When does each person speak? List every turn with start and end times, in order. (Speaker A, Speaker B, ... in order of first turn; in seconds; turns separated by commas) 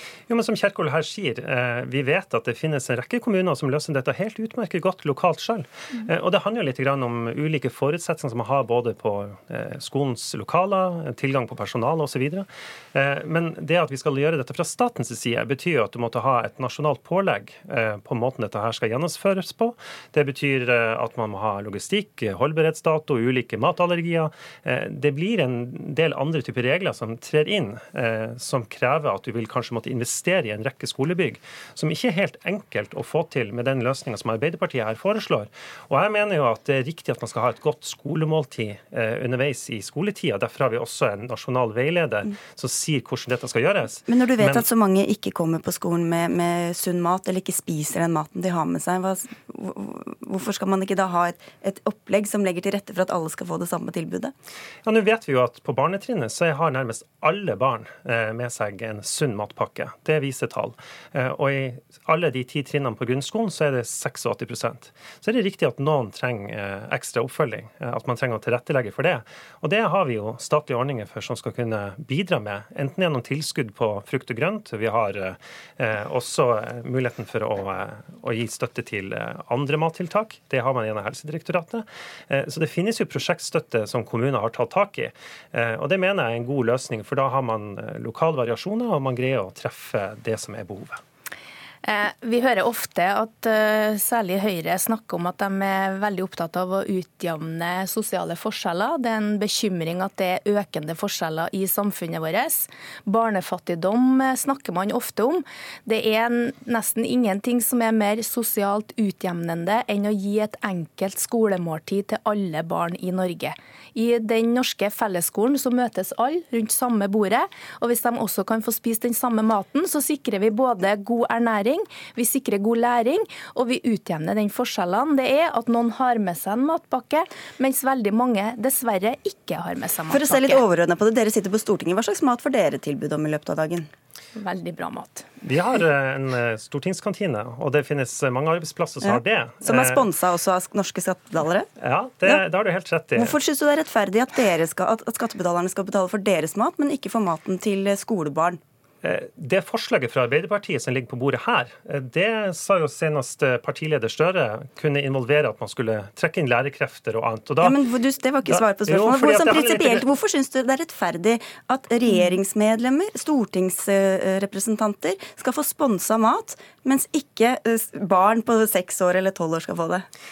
Speaker A: 0.3-44.6, Speaker B: 44.1-54.3, Speaker A: 54.9-91.0, Speaker C: 91.8-130.6, Speaker B: 130.1-133.9, Speaker C: 134.4-135.3, Speaker A: 135.4-140.0, Speaker B: 139.0-141.7, Speaker A: 141.8-143.4, Speaker B: 143.2-148.6, Speaker A: 149.0-157.8, Speaker B: 157.6-170.1, Speaker A: 158.5-160.1